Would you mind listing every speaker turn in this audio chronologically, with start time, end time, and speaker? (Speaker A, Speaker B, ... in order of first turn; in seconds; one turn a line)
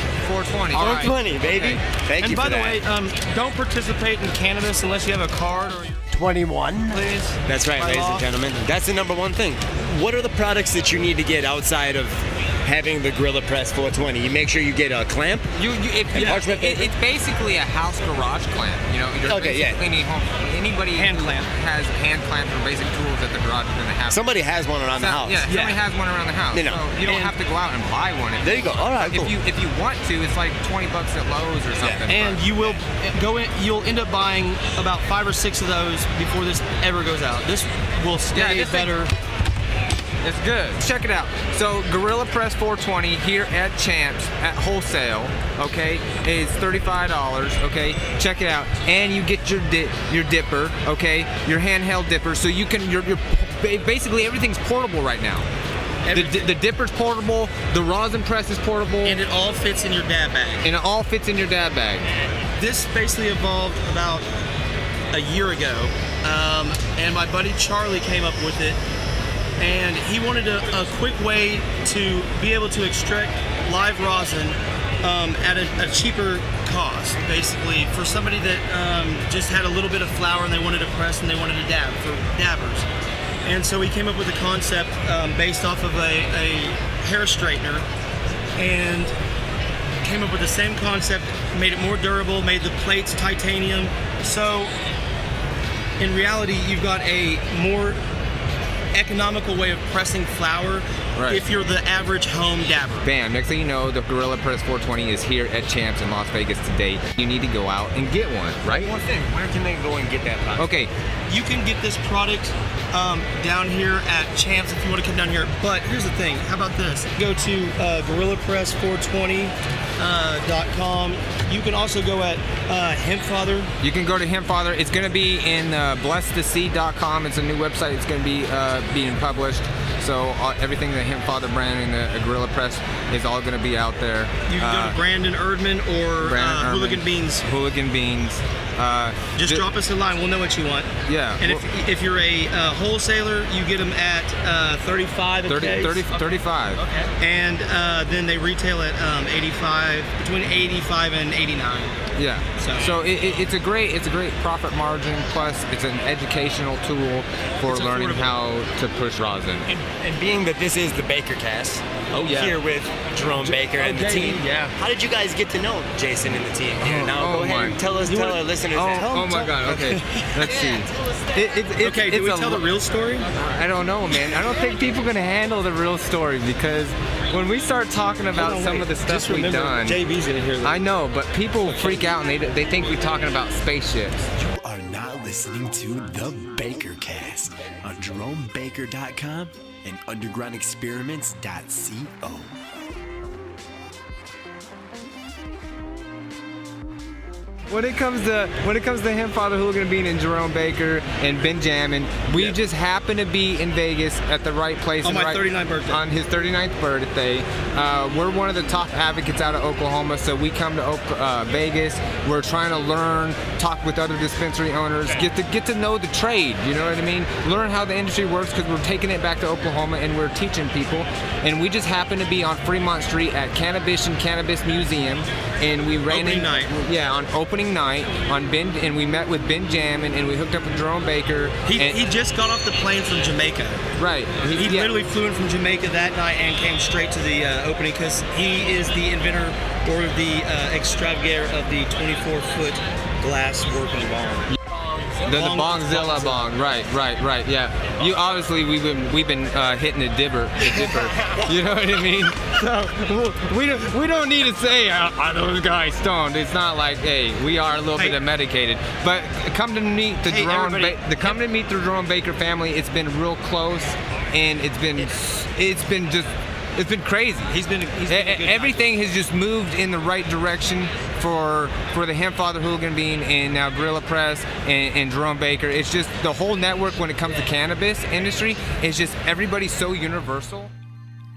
Speaker A: 0.2-1.8
Speaker B: 0.7-2.8
Speaker C: 2.2-6.1
Speaker B: 6.1-15.5
Speaker C: 6.9-8.3
Speaker A: 15.6-24.4
Speaker B: 16.1-16.9
Speaker C: 16.1-16.4
Speaker B: 19.2-19.9
Speaker C: 20.9-21.5
Speaker B: 24.1-25.4
Speaker A: 24.9-32.4
Speaker C: 25.4-25.8
Speaker B: 26.5-27.3
Speaker B: 28.4-29.4
Speaker C: 32.1-39.1
Speaker A: 38.3-38.9
Speaker A: 40.2-55.5
Speaker C: 56.0-56.5
Speaker A: 56.1-59.2
Speaker C: 59.0-60.6
Speaker A: 60.6-62.1
Speaker C: 62.6-64.3
Speaker C: 65.1-68.8
Speaker C: 69.6-82.9
Speaker C: 83.5-87.8
Speaker C: 88.6-89.1
Speaker C: 90.0-94.7
Speaker C: 96.0-98.0
Speaker C: 98.9-103.1
Speaker A: 101.2-101.4
Speaker A: 103.0-108.9
Speaker B: 108.7-110.8
Speaker A: 110.5-110.9
Speaker C: 111.3-123.7
Speaker A: 123.8-135.0
Speaker C: 134.5-137.4
Speaker A: 136.2-139.7
Speaker C: 139.4-140.9
Speaker A: 141.1-141.6
Speaker C: 141.4-151.9
Speaker A: 145.5-146.8
Speaker A: 152.2-159.7
Speaker C: 152.6-152.9
Speaker C: 157.7-158.3
Speaker B: 159.7-169.3
Speaker C: 162.2-162.6
Speaker C: 163.3-164.8
Speaker A: 166.8-167.8
Speaker C: 168.0-170.7
Speaker A: 168.7-172.6
Speaker B: 170.4-171.4
Speaker C: 171.8-173.3
Speaker A: 173.3-180.0
Speaker C: 174.1-174.4
Speaker C: 178.3-180.8
Speaker A: 180.6-184.3
Speaker D: 184.3-192.6
Speaker A: 197.7-232.0
Speaker C: 205.0-206.0
Speaker C: 226.1-226.7
Speaker C: 231.7-233.8
Speaker A: 234.0-234.9
Speaker C: 234.4-244.5
Speaker C: 245.1-246.5
Speaker A: 245.2-267.5
Speaker C: 250.6-251.5
Speaker C: 260.2-261.4
Speaker C: 267.5-268.9
Speaker A: 268.1-280.7